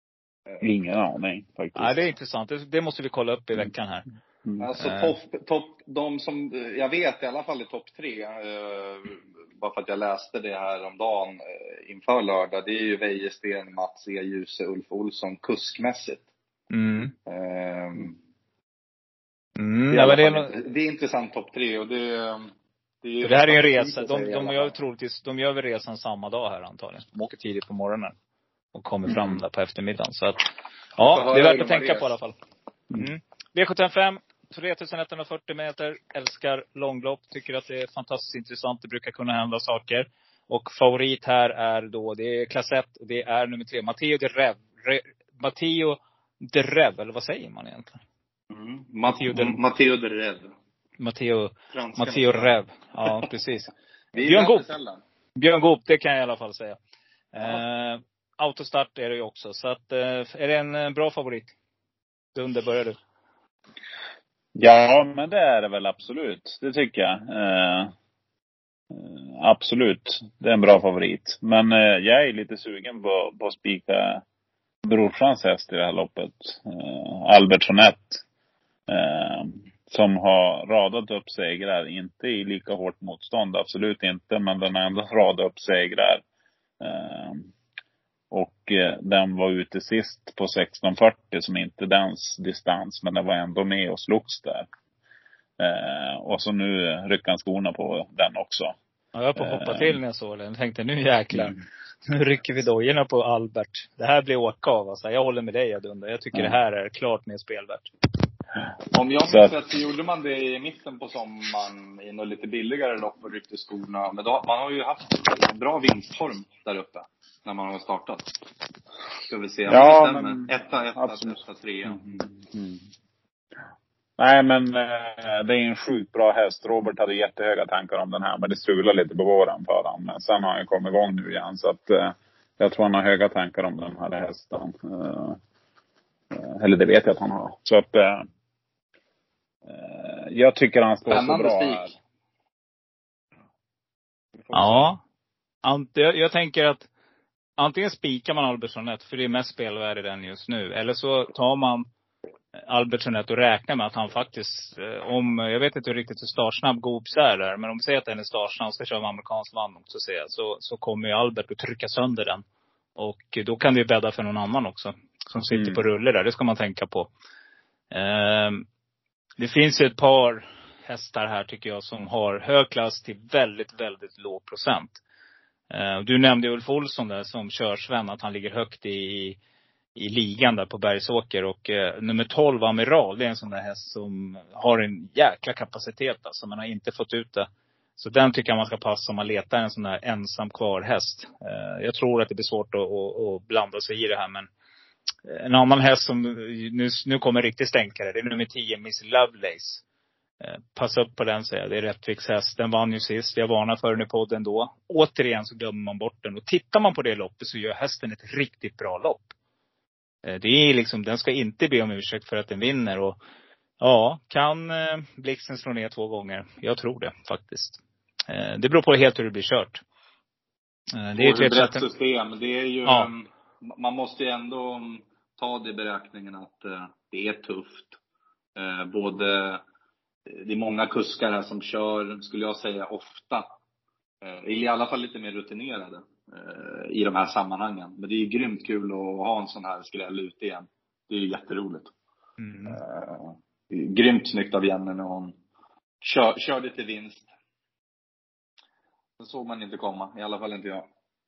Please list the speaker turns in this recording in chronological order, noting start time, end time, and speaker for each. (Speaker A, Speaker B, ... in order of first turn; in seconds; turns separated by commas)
Speaker A: 0.6-2.1, Speaker B: 1.8-4.1, Speaker C: 4.6-16.3, Speaker B: 4.8-5.1, Speaker B: 16.7-17.1, Speaker C: 17.3-18.2, Speaker B: 19.6-20.5, Speaker C: 19.9-22.5, Speaker C: 23.0-24.7, Speaker B: 23.2-28.1, Speaker B: 28.7-30.4, Speaker B: 31.0-32.4, Speaker C: 31.0-32.1, Speaker B: 33.0-48.0, Speaker C: 48.5-50.5, Speaker B: 49.2-49.6, Speaker B: 51.0-54.6, Speaker C: 51.7-52.5, Speaker C: 53.0-53.3, Speaker C: 54.1-55.0, Speaker B: 55.4-56.8, Speaker B: 57.3-61.5, Speaker B: 62.4-63.0, Speaker A: 64.6-67.9, Speaker A: 68.9-74.2, Speaker A: 74.8-78.2, Speaker A: 78.9-86.2, Speaker A: 86.8-87.5, Speaker A: 88.3-94.7, Speaker A: 95.6-98.8, Speaker B: 99.2-107.9, Speaker A: 99.4-100.0, Speaker A: 101.3-101.6, Speaker C: 108.9-118.3, Speaker C: 119.3-122.0, Speaker A: 119.7-121.3, Speaker A: 121.9-122.8, Speaker A: 124.2-135.4, Speaker A: 136.3-138.3, Speaker A: 139.7-141.9, Speaker C: 141.1-141.9, Speaker A: 144.5-144.9, Speaker B: 144.5-145.0, Speaker B: 145.6-146.9, Speaker B: 147.6-151.9, Speaker B: 152.7-162.4, Speaker B: 163.0-167.1, Speaker A: 165.5-165.8, Speaker B: 167.9-168.7, Speaker B: 169.4-175.0, Speaker B: 175.7-179.4, Speaker B: 180.0-194.5, Speaker B: 195.3-199.8, Speaker B: 200.4-209.3, Speaker B: 210.2-213.2, Speaker B: 213.8-219.8, Speaker B: 220.9-221.9, Speaker C: 221.2-228.0, Speaker C: 228.6-229.6, Speaker C: 230.3-233.5, Speaker C: 234.2-241.9, Speaker B: 242.4-242.8, Speaker C: 242.7-245.4, Speaker C: 246.0-247.3, Speaker C: 249.2-250.9